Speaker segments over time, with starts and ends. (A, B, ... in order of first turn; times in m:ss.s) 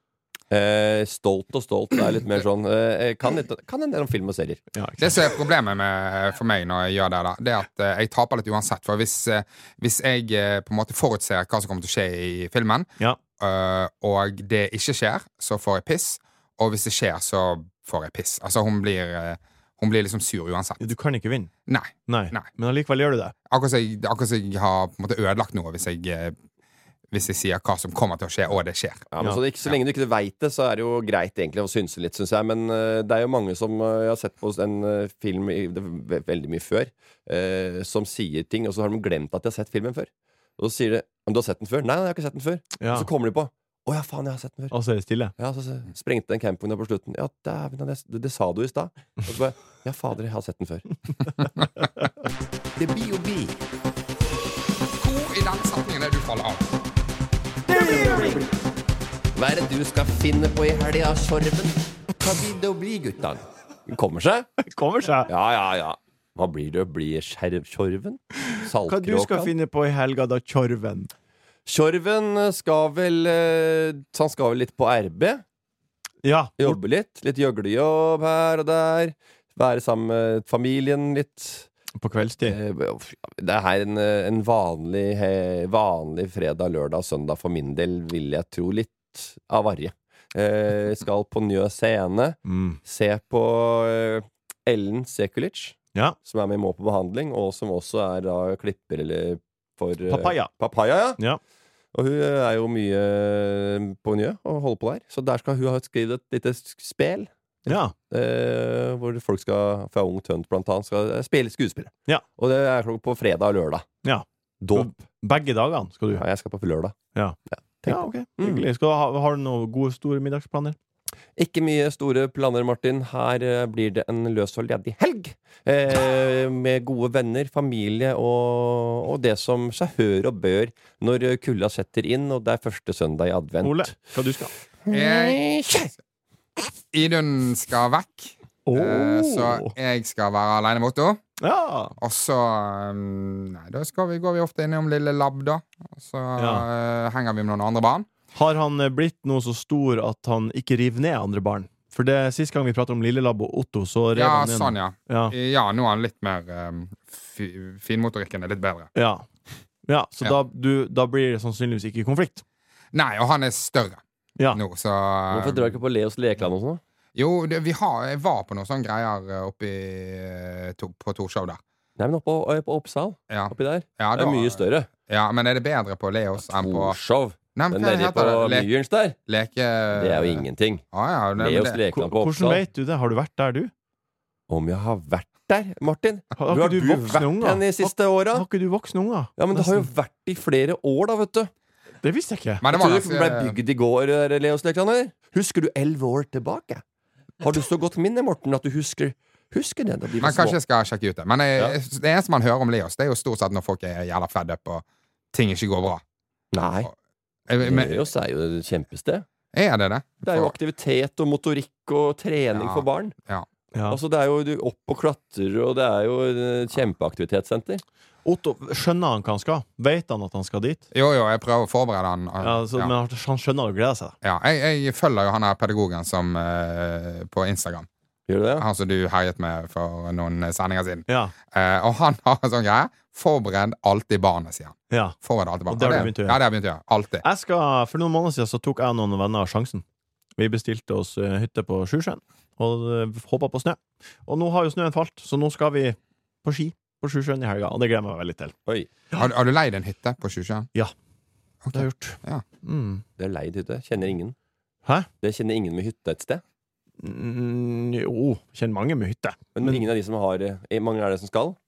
0:00.5-0:04.6 A
0:04.7-0:05.1 B
0:05.0-0:20.8 C
0:20.8-0:21.5 B
0:21.7-0:22.4 C
0:22.1-0:23.3 B
0:23.5-0:26.3 C
0:27.1-0:29.1 C
0:29.1-0:44.7 A
0:42.8-0:43.1 B
0:44.7-0:45.3 B
0:45.4-0:51.0 A
0:52.8-0:53.6 A
0:55.0-0:56.7 C
0:57.7-0:58.4 B
0:57.9-0:58.4 A
0:59.3-1:04.5 A
1:04.6-1:05.3 B
1:05.3-1:09.5 A
1:08.5-1:11.1 B
1:11.6-1:15.4 A
1:16.2-1:16.8 B
1:16.6-1:21.7 A
1:22.0-1:22.6 B
1:22.2-1:41.2 A
1:32.4-1:32.8 B
1:40.1-1:40.5 B
1:41.9-1:53.8 A
1:47.7-1:47.9 B
1:54.0-1:56.2 B
1:54.6-1:55.0 A
1:56.1-1:57.0 A
1:57.1-2:00.8 B
1:57.5-1:58.6 A
2:01.4-2:13.9 A
2:13.6-2:14.5 B
2:14.8-2:15.9 A
2:14.9-2:15.4 C
2:16.9-2:21.2 C
2:18.6-2:19.7 B
2:21.4-2:21.9 B
2:22.0-2:28.1 C
2:26.4-2:26.7 B
2:28.3-2:35.3 B
2:34.1-2:38.9 C
2:38.9-2:39.3 B
2:39.8-2:42.4 B
2:42.9-2:45.7 C
2:45.3-2:46.8 A
2:47.2-2:51.6 C
2:52.0-2:54.9 A
2:53.3-2:57.0 C
2:56.5-2:59.2 A
2:57.5-2:58.7 C
2:59.3-3:01.8 C
2:59.9-3:00.8 A
3:01.4-3:02.6 A
3:01.9-3:03.7 B
3:04.5-3:08.4 A
3:06.4-3:09.9 B
3:09.4-3:11.5 A
3:12.0-3:12.6 B
3:12.6-3:13.6 C
3:12.7-3:16.8 A
3:17.4-3:20.6 A
3:20.2-3:26.0 C
3:26.5-3:26.9 A
3:27.5-3:28.0 C
3:27.6-3:29.2 A
3:29.5-3:30.5 C
3:30.2-3:33.1 A
3:32.5-3:33.5 C
3:33.9-3:37.8 A
3:38.2-3:40.8 B
3:40.9-3:42.9 C
3:42.4-3:44.2 B
3:44.2-3:47.9 C
3:48.3-3:48.6 A
3:48.6-3:57.2 C
3:51.1-3:51.3 B
3:54.9-3:55.2 B
3:55.7-3:56.4 B
3:57.2-3:59.8 B
4:00.4-4:08.5 B
4:09.2-4:10.7 C
4:11.6-4:12.4 C
4:11.7-4:13.0 B
4:13.2-4:14.3 A
4:15.2-4:16.4 A
4:17.0-4:19.8 B
4:19.5-4:21.6 A